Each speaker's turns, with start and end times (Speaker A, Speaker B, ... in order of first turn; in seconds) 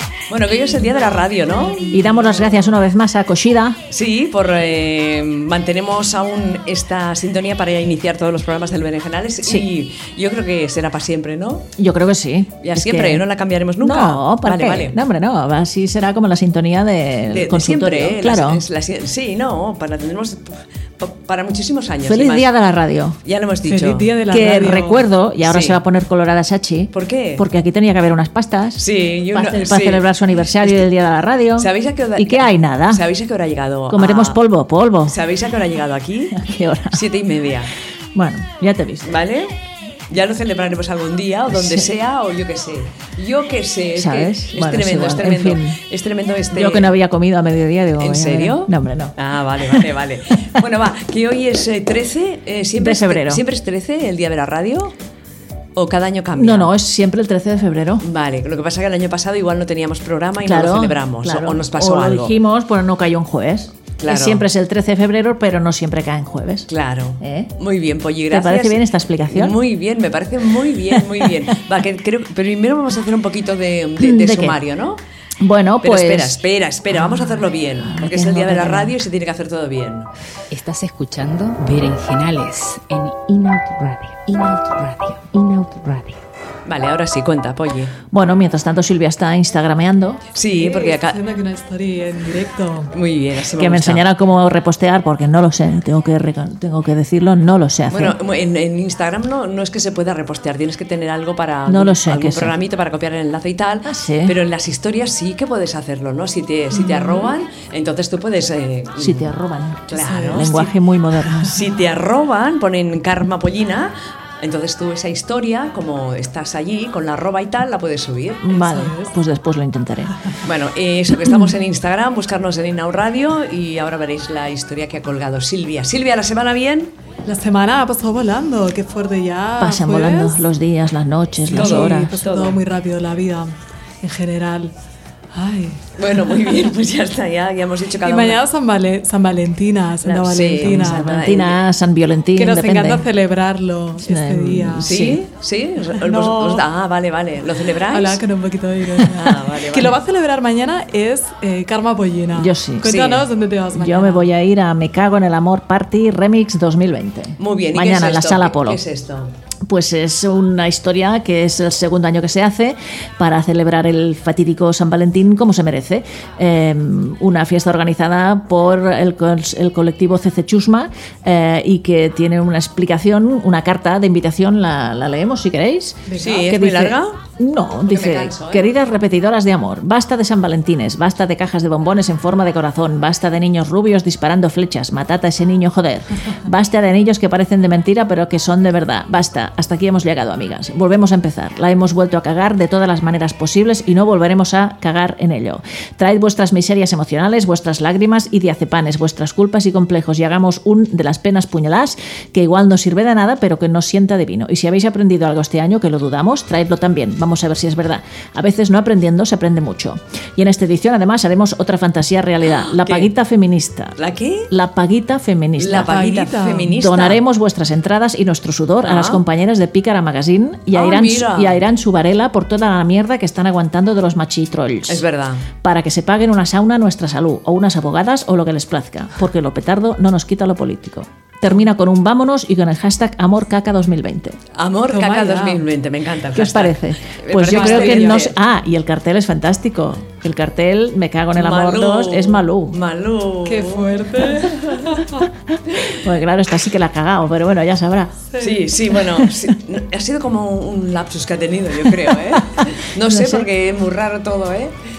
Speaker A: 0.3-2.2, 3.9-11.7, 12.6-15.0, 17.3-22.5, 23.2-24.5, 25.4-25.8, 26.9-27.4, 28.8-30.9, 31.6-34.4, 35.1-36.4, 36.9-37.7, 39.0-39.5, 40.1-46.9, 48.0-54.9, 55.8-56.7, 58.0-62.3, 64.0-64.4, 66.7-75.0, 75.8-80.1, 86.7-87.9, 90.3-91.2, 92.9-94.0, 97.9-109.3, 109.9-110.7, 111.5-118.5, 120.4-126.9, 131.5-132.6, 136.0-138.4, 140.0-141.6, 144.8-148.2, 149.1-150.0, 152.9-153.2, 157.4-159.3, 176.2-177.2, 177.8-178.7, 212.6-213.1, 214.0-214.5, 215.6-217.2, 218.8-219.2, 220.7-221.6, 224.9-225.4, 234.5-238.3, 241.3-244.4, 248.4-254.8
Speaker B: 0.7-2.5, 23.6-25.0, 90.5-92.9, 106.7-107.3, 109.9-110.7, 118.5-119.1, 127.2-130.4, 131.5-134.7, 135.3-136.5, 138.0-141.2, 142.3-144.9, 145.9-146.6, 147.9-154.3, 176.1-176.4, 215.9-216.7, 234.9-235.6, 237.5-238.2, 243.4-245.3, 248.3-248.6
Speaker C: 1.9-3.8, 11.8-13.2, 13.8-18.6, 22.0-23.2, 24.3-33.0, 33.9-35.1, 36.3-37.0, 38.1-39.2, 41.5-41.9, 44.0-45.8, 46.5-49.1, 52.8-53.4, 56.4-58.0, 60.4-66.7, 67.2-67.5, 68.3-69.6, 71.0-71.2, 74.0-74.6, 75.4-76.4, 76.9-78.9, 88.1-90.2, 93.5-98.2, 101.7-102.5, 103.8-104.3, 109.0-111.6, 118.4-120.1, 129.6-132.2, 140.6-143.1, 144.0-145.2, 152.3-153.0, 153.7-158.8, 159.7-213.9, 214.5-225.0, 225.6-234.4, 236.3-242.8, 245.5-248.1, 252.4-253.5
Speaker D: 80.5-86.2